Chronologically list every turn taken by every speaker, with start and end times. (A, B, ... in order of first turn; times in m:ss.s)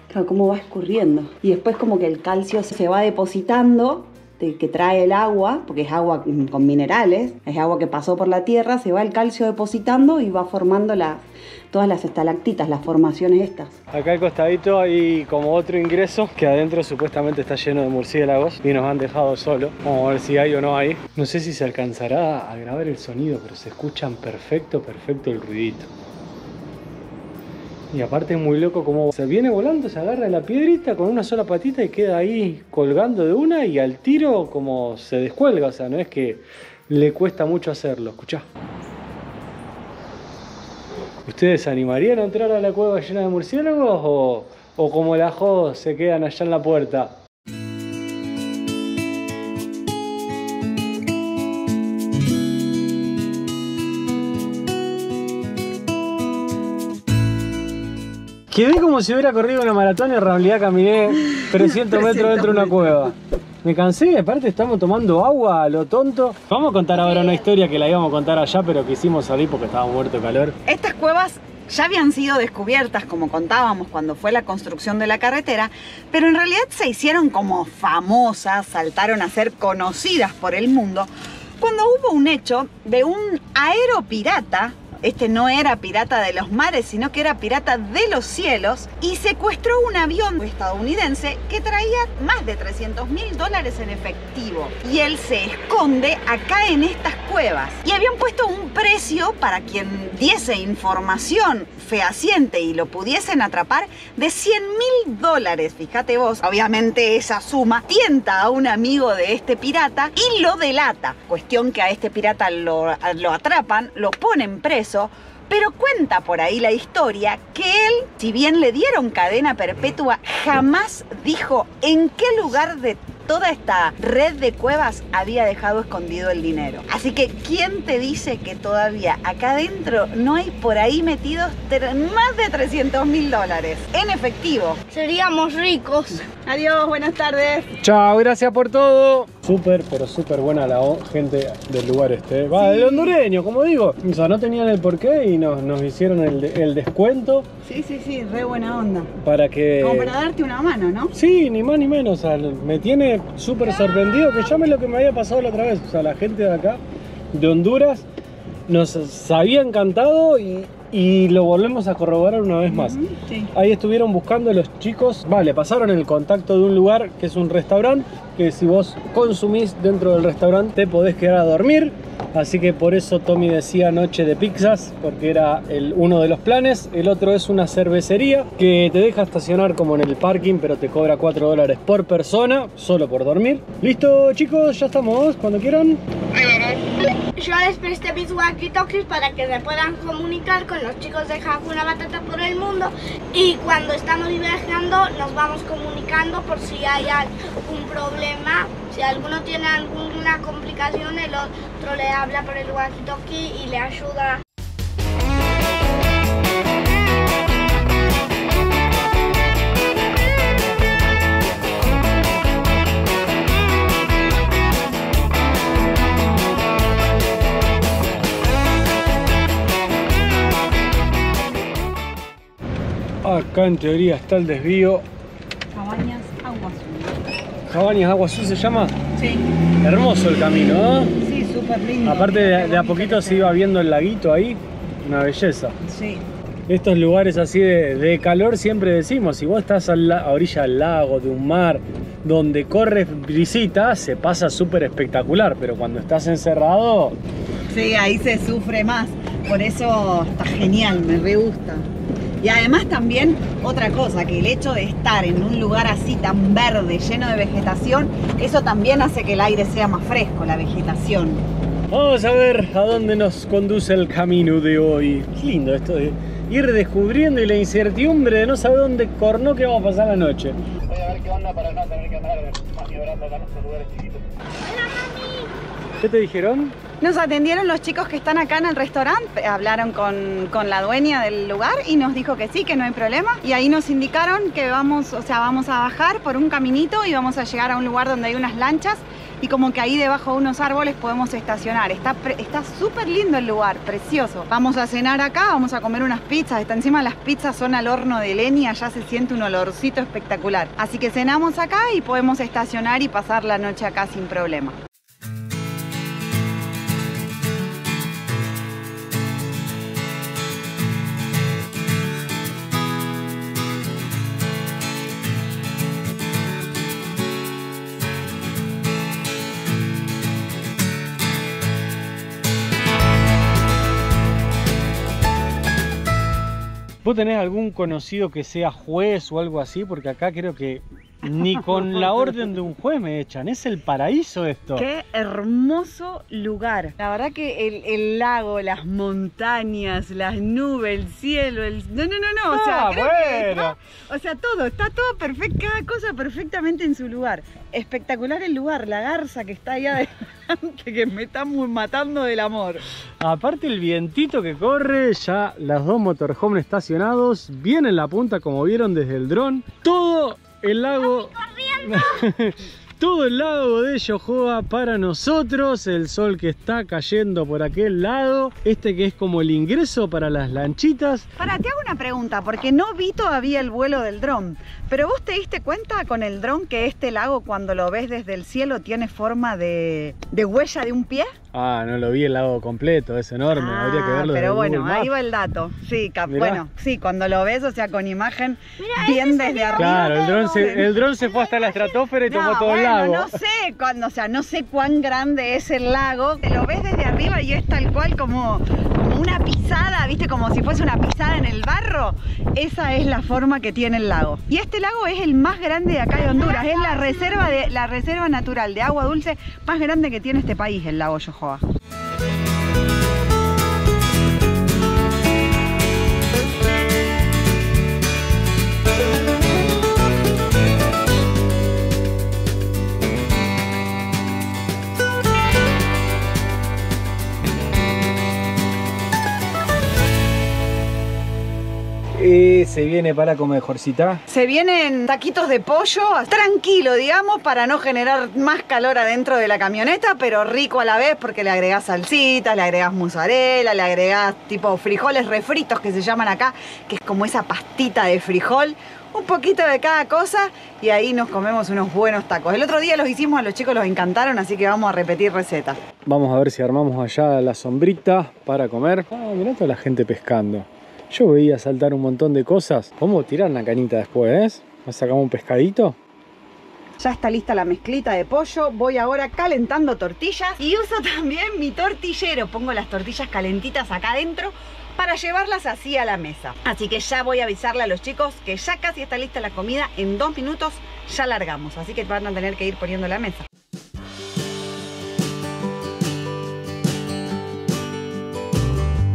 0:00.1-0:13.8 A
0:13.9-0:25.9 B
0:27.9-0:38.4 B
0:41.2-0:47.2 B
0:58.5-1:10.6 B
1:01.4-1:03.1 A
1:10.6-2:14.8 A
2:14.9-2:16.3 C
2:16.4-2:17.7 A
2:17.8-2:27.5 B
2:22.5-2:23.1 A
2:27.6-2:29.1 A
2:29.2-2:30.2 B
2:29.8-2:31.1 A
2:31.1-2:36.8 B
2:37.3-2:38.0 B
2:38.7-3:06.0 B
2:42.7-2:43.5 A
3:06.4-3:06.8 C
3:07.4-3:24.4 C
3:43.2-3:45.0 B
3:45.7-3:47.2 A
3:47.7-3:49.0 B
3:49.2-3:49.4 A
3:49.8-3:51.2 B
3:51.2-3:53.6 A
3:52.0-3:55.8 B
3:55.8-3:56.2 A
3:56.7-4:07.2 B
4:07.7-4:11.9 A
4:12.4-4:21.4 A
4:21.9-4:30.6 B
4:31.0-4:33.9 D
4:34.6-4:35.5 C
4:36.0-4:36.8 B
4:37.0-5:04.8 A
5:27.0-5:34.9 B
5:34.8-5:52.8 A
5:42.5-5:43.8 B
5:53.2-6:11.3 B
6:00.9-6:02.3 C
6:11.4-6:21.4 A
6:21.5-6:25.1 B
6:23.5-6:30.9 A
6:26.3-6:26.6 B
6:28.8-6:32.0 C
6:29.8-6:33.4 B
6:32.3-6:51.6 A
6:46.2-6:47.1 C
7:12.2-7:14.2 B
7:14.3-7:35.8 A
7:36.1-7:46.0 B
7:47.0-8:03.5 A